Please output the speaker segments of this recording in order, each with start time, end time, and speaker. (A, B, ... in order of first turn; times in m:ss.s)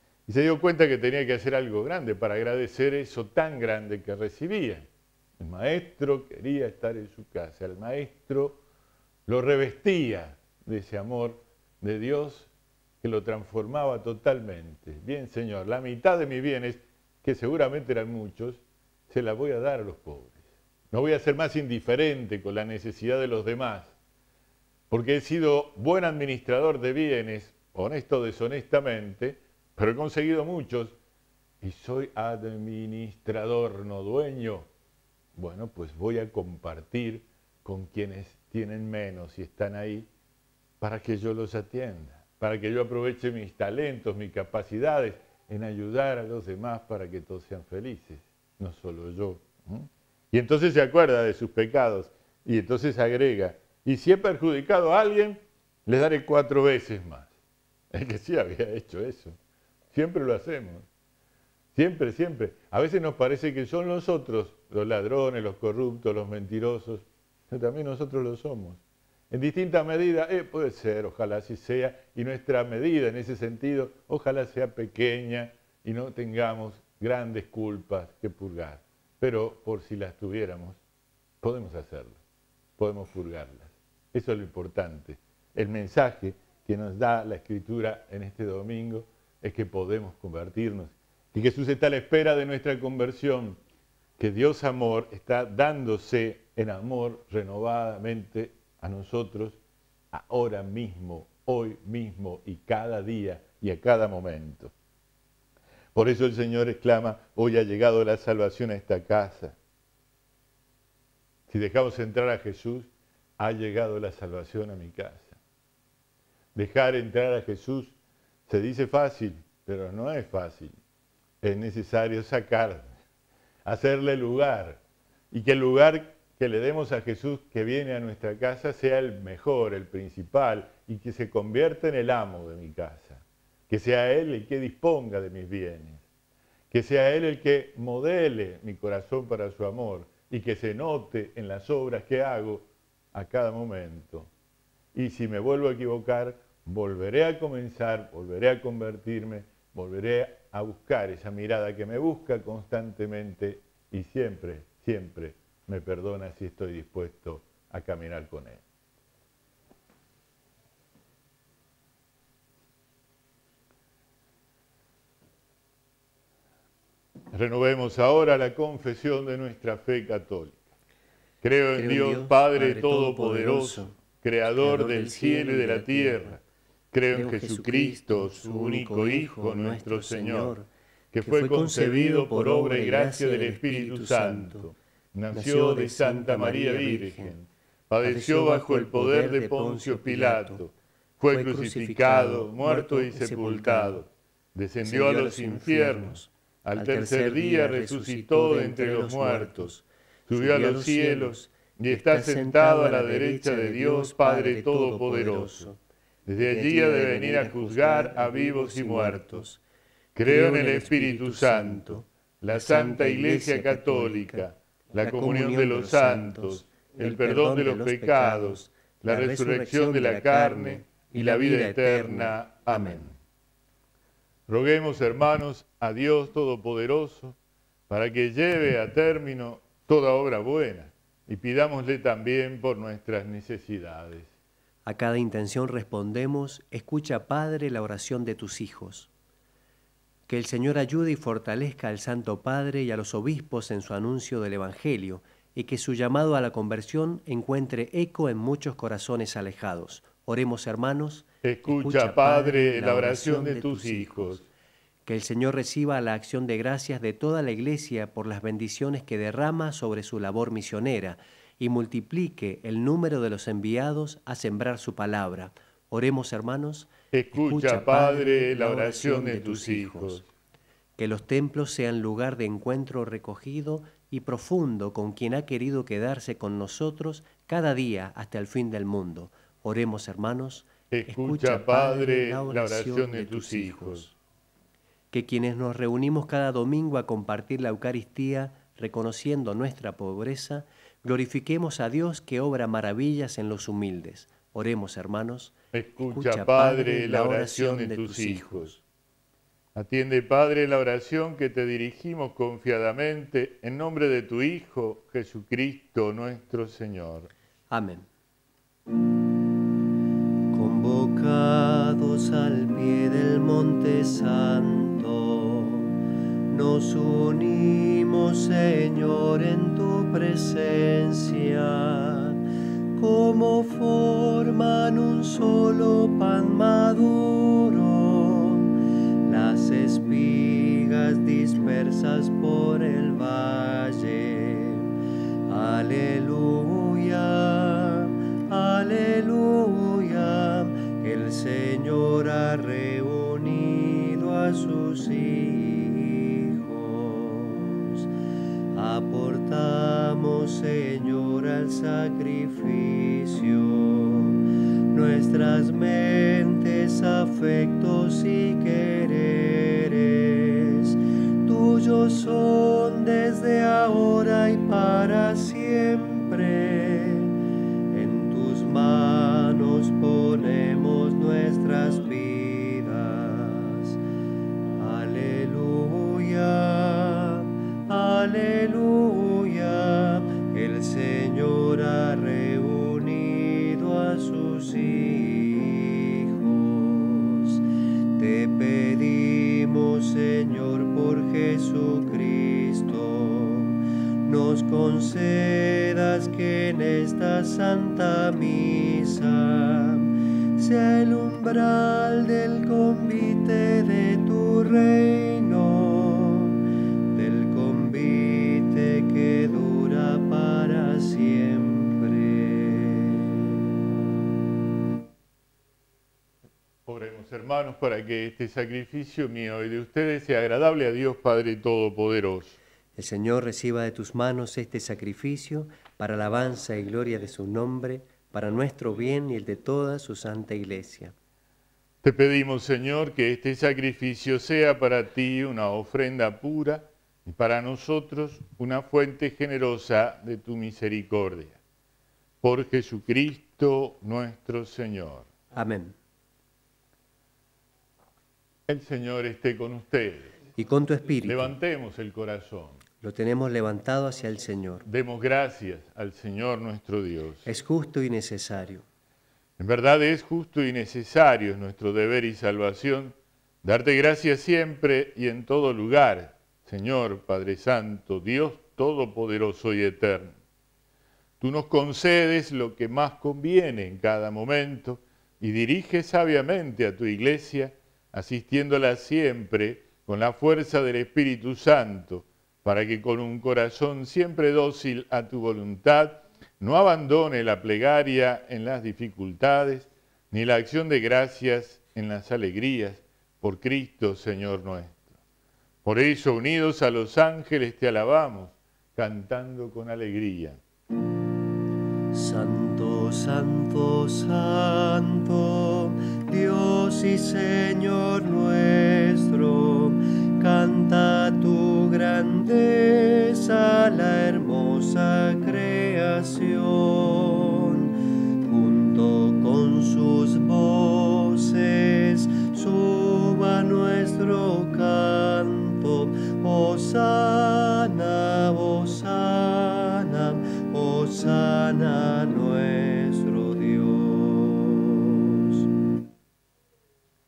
0:00.3-0:04.9 A
0:05.4-0:08.6 A
0:09.3-0:12.5 A
0:13.0-0:23.9 A
0:24.9-0:31.0 A
0:31.6-0:34.7 A
0:35.4-0:40.1 A
0:40.8-0:57.3 A
0:57.9-0:59.4 A
0:59.9-1:00.8 A
1:01.7-1:20.8 A
1:21.4-1:22.2 A
1:22.8-1:33.6 A
1:34.2-1:39.6 A
1:40.1-1:44.7 A
1:45.9-1:49.6 A
1:51.5-1:55.4 A
1:56.5-1:57.9 A
1:58.5-2:00.7 A
2:01.4-2:02.9 A
2:03.6-2:16.0 A
2:16.7-2:24.3 A
2:24.9-2:38.6 A
2:47.3-2:50.6 A
2:51.4-2:56.4 A
2:51.7-2:54.0 B
2:54.5-2:56.4 B
2:56.9-3:00.6 A
2:57.1-3:00.7 B
3:01.1-3:19.7 A
3:01.2-3:04.7 B
3:05.3-3:07.3 B
3:08.0-3:10.6 B
3:11.2-3:14.0 B
3:14.8-3:25.8 B
3:20.3-3:25.7 A
3:26.2-3:29.4 A
3:26.4-3:29.6 B
3:30.1-3:43.1 A
3:30.2-3:43.1 B
3:44.5-3:47.4 A
3:47.9-3:54.3 A
3:54.8-3:59.1 B
4:00.3-4:14.4 B
4:11.4-4:14.4 A
4:15.0-4:30.3 B
4:27.1-4:30.2 A
4:31.0-4:44.1 B
4:40.9-4:44.1 A
4:45.1-4:58.8 B
4:55.7-4:58.7 A
4:59.7-5:07.3 A
5:07.7-5:08.1 B
5:10.5-5:15.9 B
5:16.5-5:22.4 B
5:23.0-5:28.7 B
5:29.2-5:34.9 B
5:35.5-5:48.1 B
5:48.7-6:07.3 B
6:07.9-6:14.0 B
6:14.8-6:27.6 B
6:28.2-6:53.4 B
6:56.8-7:02.6 A
7:03.0-7:11.1 B
7:12.0-7:21.6 A
7:22.4-7:25.3 A
7:25.5-7:26.0 B
7:28.7-7:30.4 A
7:30.5-7:31.5 B
7:31.2-7:32.8 A
7:33.0-7:34.8 B
7:34.8-7:37.5 A
7:37.4-7:38.8 B
7:39.6-7:50.3 A
7:51.4-8:15.0 A
8:15.8-8:20.6 A
8:22.1-8:55.6 B